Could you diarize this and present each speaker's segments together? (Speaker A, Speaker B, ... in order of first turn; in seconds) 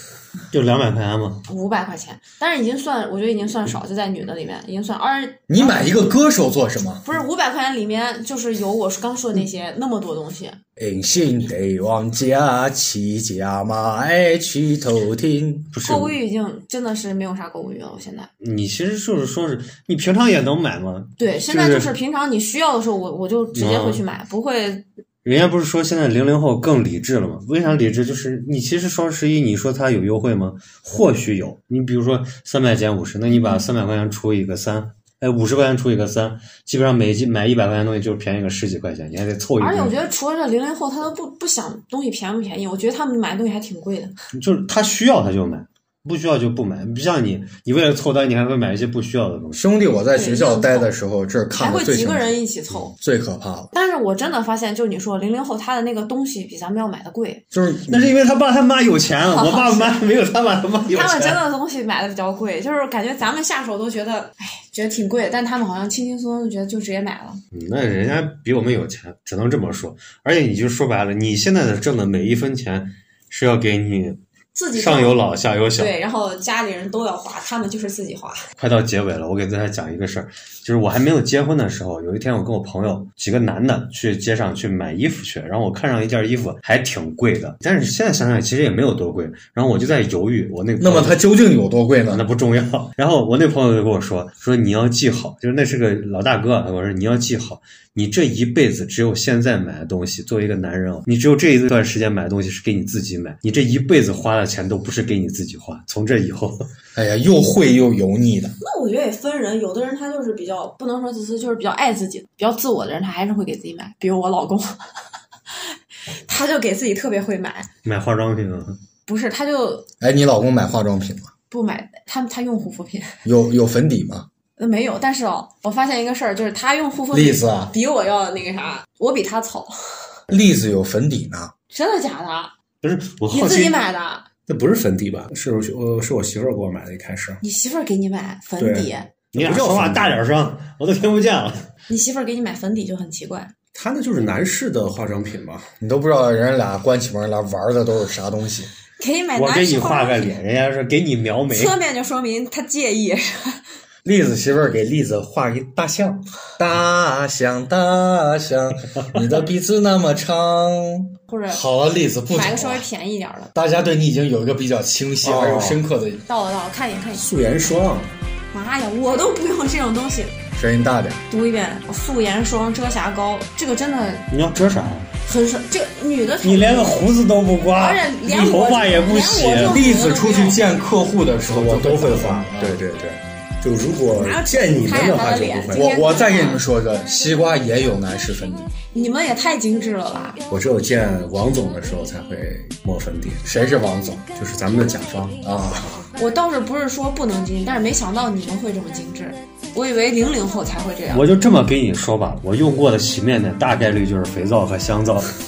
Speaker A: 0.5-1.4, 15.7-16.1, 18.4-21.9, 23.5-24.0, 25.2-40.0, 44.3-49.6, 57.9-61.4, 67.5-74.2, 74.7-75.9, 78.6-91.3, 92.1-106.7, 117.8-118.8, 132.8-133.8, 139.3-141.7, 149.3-151.8, 174.3-175.1, 176.4-179.8, 201.1-205.3
Speaker B: 1.5-6.2, 7.0-10.6, 15.8-18.3, 21.2-24.9, 39.6-44.1, 50.1-50.9, 51.5-53.0, 53.7-57.4, 59.3-60.0, 60.9-67.4, 74.5-75.2, 75.8-78.5, 108.6-114.9, 115.5-117.7, 119.1-119.9, 121.5-123.2, 124.6-130.2, 131.7-132.5, 133.3-134.2, 137.4-139.1, 141.9-143.5, 149.0-150.4, 151.5-153.6, 161.3-161.6, 162.3-163.5, 166.3-167.3, 168.5-170.3, 171.3-174.3, 175.2-177.0, 177.8-180.6, 184.1-186.7, 188.9-190.4, 196.2-201.3
Speaker C: 5.5-7.0, 10.8-15.7, 49.5-52.4, 53.0-53.7, 57.5-58.2, 90.8-92.2, 107.0-108.6, 120.0-121.3, 123.2-124.3, 127.1-127.7, 130.3-131.5, 145.8-148.7, 154.1-162.8, 163.5-166.2, 170.6-171.2, 179.6-182.8, 185.7-188.7, 193.4-194.2, 195.4-195.9
Speaker D: 134.5-137.4, 138.6-140.2, 143.7-145.7, 165.2-165.8, 167.2-168.1, 181.5-186.0, 190.5-193.4, 194.4-195.4